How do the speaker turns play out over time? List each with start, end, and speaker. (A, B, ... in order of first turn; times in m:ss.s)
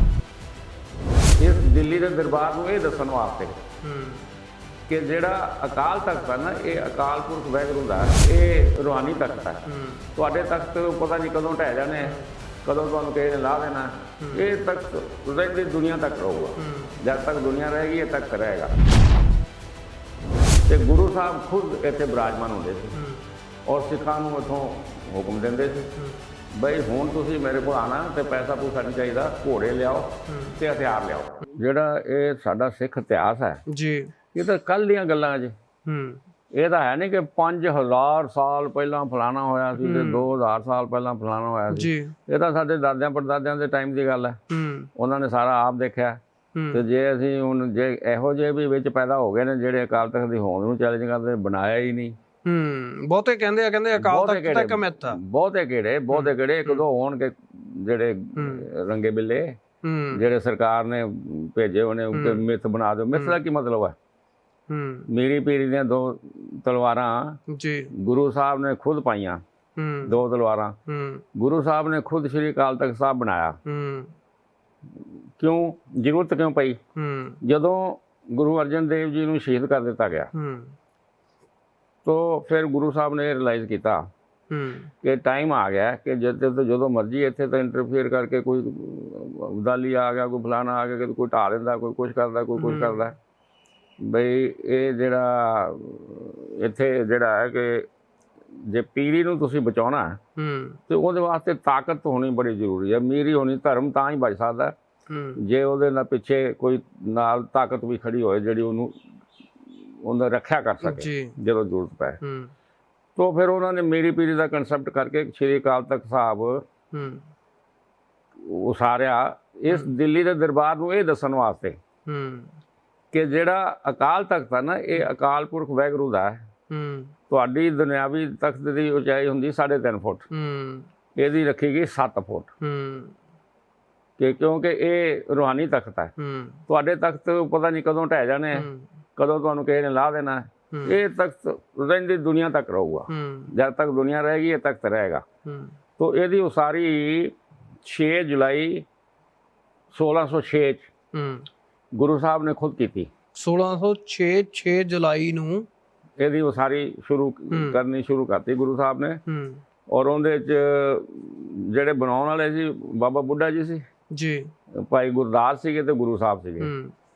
0:01.4-0:03.6 A
0:03.8-0:04.3 B
0:04.9-0:18.7 A
0:09.6-0:10.1 B
0:12.0-0:12.3 B
0:14.2-0:14.5 B
0:16.6-0:17.0 B
0:20.7-0:23.0 A
0:23.0-0:23.2 B
0:23.7-0:25.9 A
0:26.5-0:33.6 A
0:30.3-0:30.6 B
0:33.7-0:34.1 B
0:34.3-0:35.5 A
0:35.8-0:36.2 B
0:36.5-0:44.4 A
0:39.8-0:40.3 B
0:41.7-0:42.1 B
0:44.5-0:44.9 B
0:45.0-0:46.2 A
0:46.6-0:46.8 B
0:46.7-0:52.2 A
0:52.4-0:55.2 B
0:53.9-0:59.6 A
0:56.1-0:56.9 B
0:58.4-0:58.7 B
0:59.8-1:00.2 B
1:00.1-1:04.0 A
1:02.1-1:02.4 B
1:03.1-1:03.4 B
1:04.7-1:05.1 B
1:05.1-1:07.4 A
1:07.5-1:07.9 B
1:07.9-1:09.4 A
1:09.8-1:10.2 B
1:10.0-1:10.8 A
1:10.9-1:11.2 B
1:11.3-1:13.6 A
1:13.7-1:14.1 B
1:15.4-1:16.8 A
1:16.9-1:17.4 B
1:17.4-1:20.3 A
1:20.3-1:20.8 B
1:22.0-1:24.1 A
1:24.5-1:24.9 B
1:25.0-1:33.2 A
1:32.6-1:33.0 B
1:34.0-1:37.9 A
1:38.6-1:40.2 A
1:40.4-1:40.8 B
1:40.9-1:44.8 A
1:45.1-1:45.4 B
1:45.4-1:49.0 A
1:50.0-1:52.2 A
1:50.8-1:51.4 B
1:52.2-1:52.5 B
1:53.2-1:56.6 A
1:56.9-1:57.3 B
1:58.4-2:01.8 A
2:02.0-2:02.6 B
2:03.1-2:06.5 A
2:06.7-2:07.1 B
2:07.3-2:10.3 A
2:10.3-2:10.9 B
2:11.2-2:12.5 A
2:12.6-2:13.2 B
2:14.2-2:16.1 A
2:16.2-2:16.6 B
2:16.7-2:25.2 A
2:18.5-2:18.9 B
2:20.7-2:21.0 B
2:23.1-2:23.5 B
2:25.4-2:25.8 B
2:26.0-2:28.9 A
2:29.9-2:30.9 A
2:31.1-2:31.5 B
2:32.0-2:33.1 A
2:33.4-2:35.7 B
2:36.2-2:39.2 A
2:37.5-2:37.8 B
2:39.3-2:39.6 B
2:39.9-2:43.8 A
2:44.1-2:44.5 B
2:44.7-2:46.7 A
2:46.6-2:46.9 B